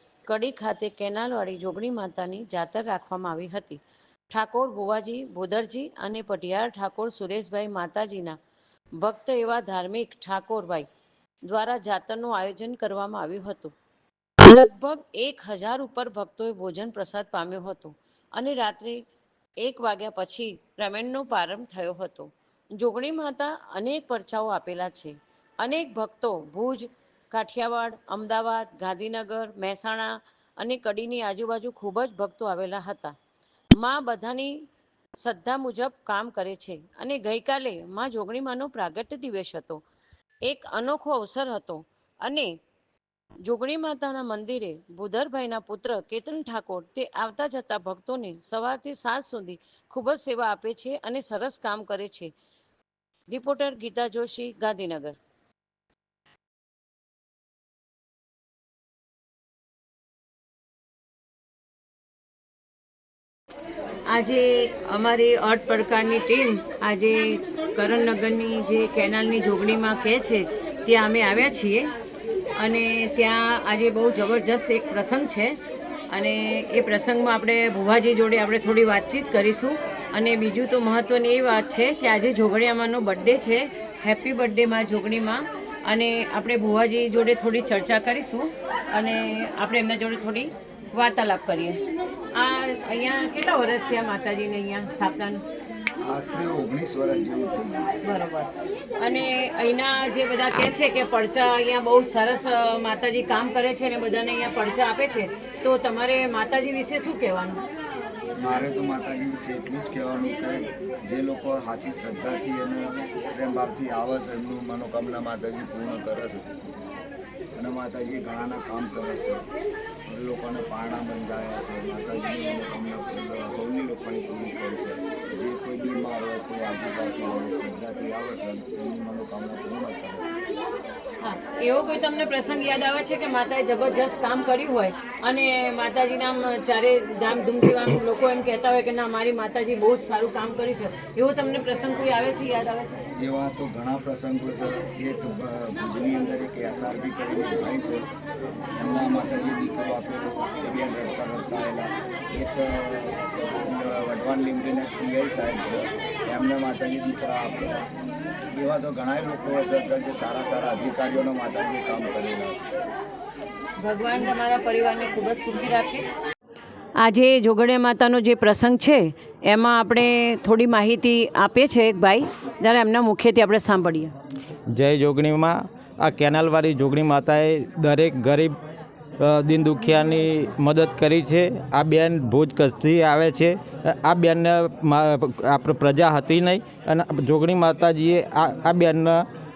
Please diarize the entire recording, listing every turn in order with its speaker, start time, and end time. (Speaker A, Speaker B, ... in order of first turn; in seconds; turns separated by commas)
Speaker A: 0.3-3.8, Speaker A: 4.3-8.4, Speaker A: 9.0-10.9, Speaker A: 11.4-13.7, Speaker A: 14.4-19.0, Speaker A: 19.6-33.1, Speaker A: 33.8-34.6, Speaker A: 35.2-39.8, Speaker A: 40.5-42.5, Speaker A: 43.4-52.3, Speaker A: 53.3-55.2, Speaker A: 64.1-71.9, Speaker A: 72.6-75.6, Speaker A: 76.1-91.8, Speaker A: 92.3-95.4, Speaker B: 96.0-97.8, Speaker A: 98.0-107.6, Speaker B: 108.4-116.5, Speaker B: 117.6-119.5, Speaker B: 120.1-130.3, Speaker A: 131.2-143.0, Speaker B: 143.2-148.1, Speaker B: 148.7-157.9, Speaker B: 158.5-162.7, Speaker A: 163.8-166.1, Speaker A: 167.0-174.1, Speaker C: 174.7-178.6, Speaker C: 179.2-189.2